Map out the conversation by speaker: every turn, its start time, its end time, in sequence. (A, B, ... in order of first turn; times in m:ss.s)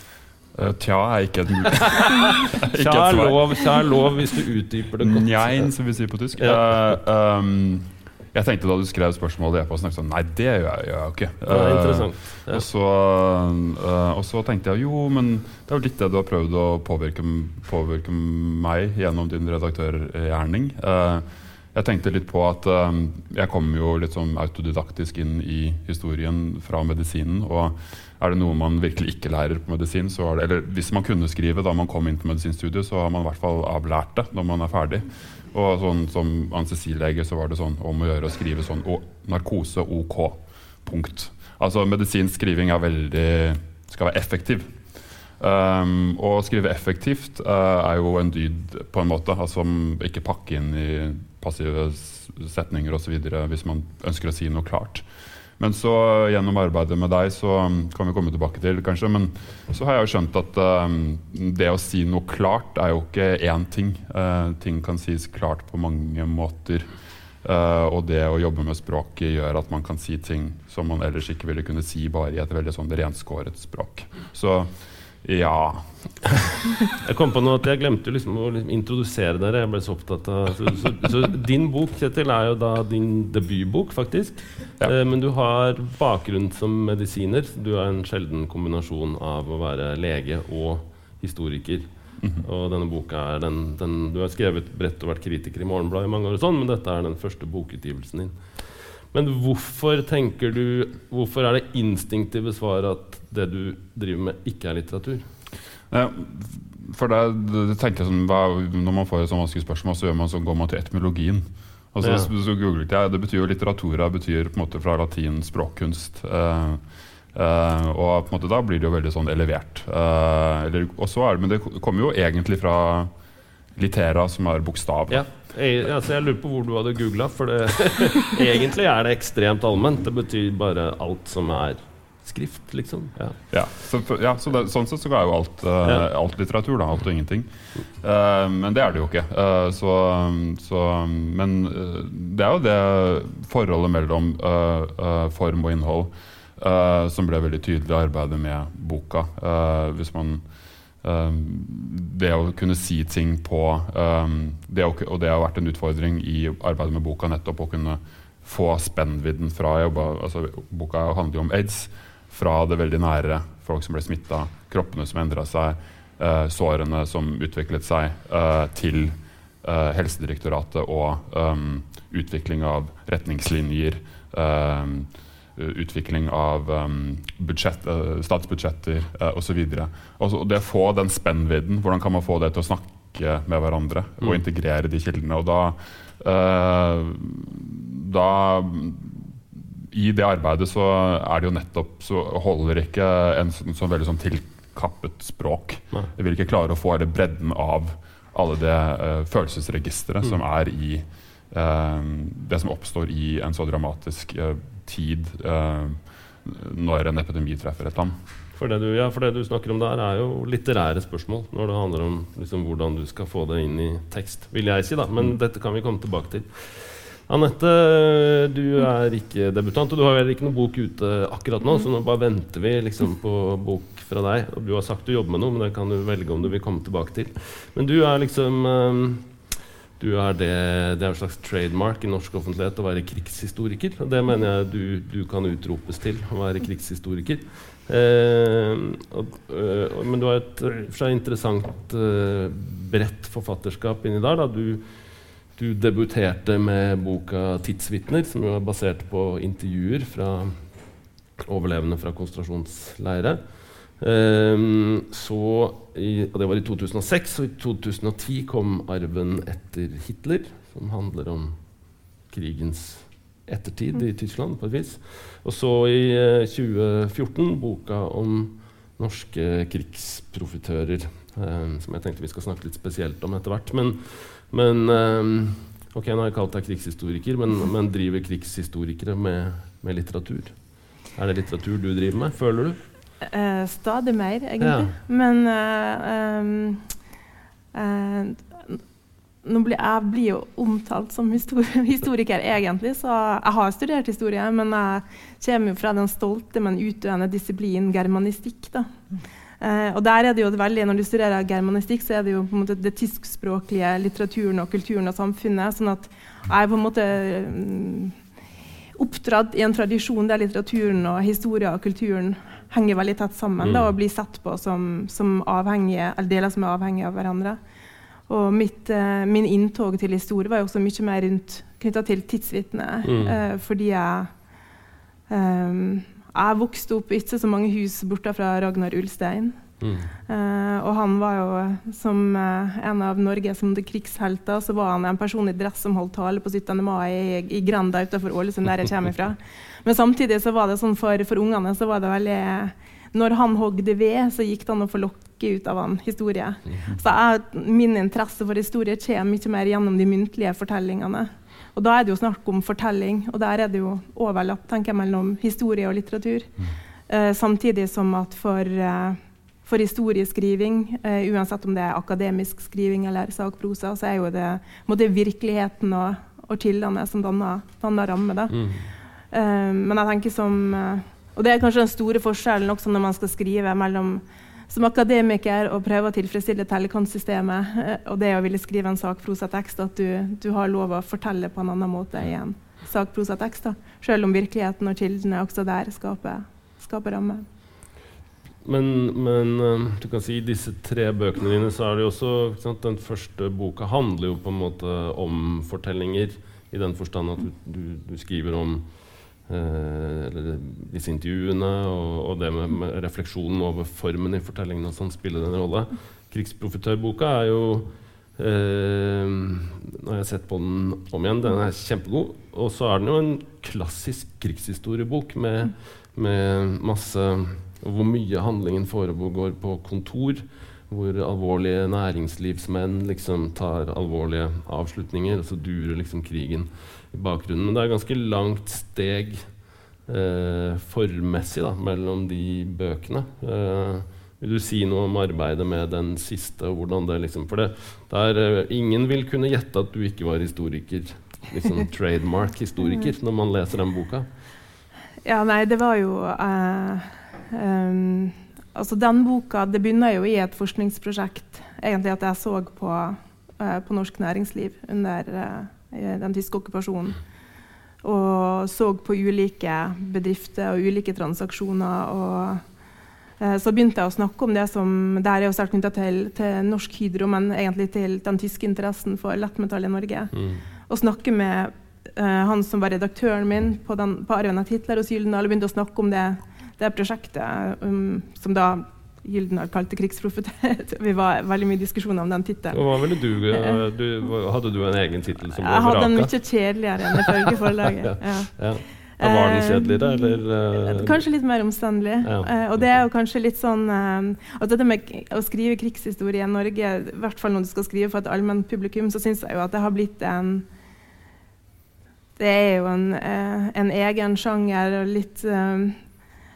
0:00.5-0:03.6 A
0:02.6-0:05.7 B
0:05.0-0:44.8 A
0:06.4-0:06.6 B
0:11.5-0:12.6 B
0:45.4-0:55.0 A
0:55.6-1:06.9 A
1:07.4-1:14.7 A
1:15.2-1:16.4 A
1:16.9-1:31.8 B
1:32.4-1:45.2 B
1:45.9-2:03.1 A
1:52.0-1:52.3 B
2:03.8-2:05.2 A
2:05.1-2:13.4 B
2:13.5-2:30.4 A
2:31.0-3:28.2 A
3:28.5-3:49.3 B
3:50.0-4:05.0 B
4:05.5-4:10.6 B
4:11.4-4:21.5 B
4:22.3-4:42.8 B
4:43.2-4:46.9 C
4:44.6-4:44.9 B
4:47.7-4:48.8 C
4:49.4-4:58.9 C
4:59.6-5:08.2 C
5:09.0-5:17.6 C
5:13.6-5:13.9 B
5:18.3-5:24.3 C
5:23.0-5:23.4 B
5:25.3-5:29.6 C
5:29.8-5:30.1 B
5:30.3-5:56.5 C
5:57.1-6:08.6 C
6:08.5-6:08.9 B
6:09.3-6:27.4 C
6:28.6-7:09.4 B
7:10.1-7:24.2 B
7:25.2-7:37.2 C
7:38.0-7:42.6 C
7:43.4-7:50.3 C
7:50.3-7:50.6 B
7:50.9-8:02.8 C
8:02.7-8:06.3 B
8:03.5-8:03.8 C
8:05.6-8:20.6 C
8:08.1-8:11.2 B
8:12.2-8:13.0 B
8:22.4-8:26.0 C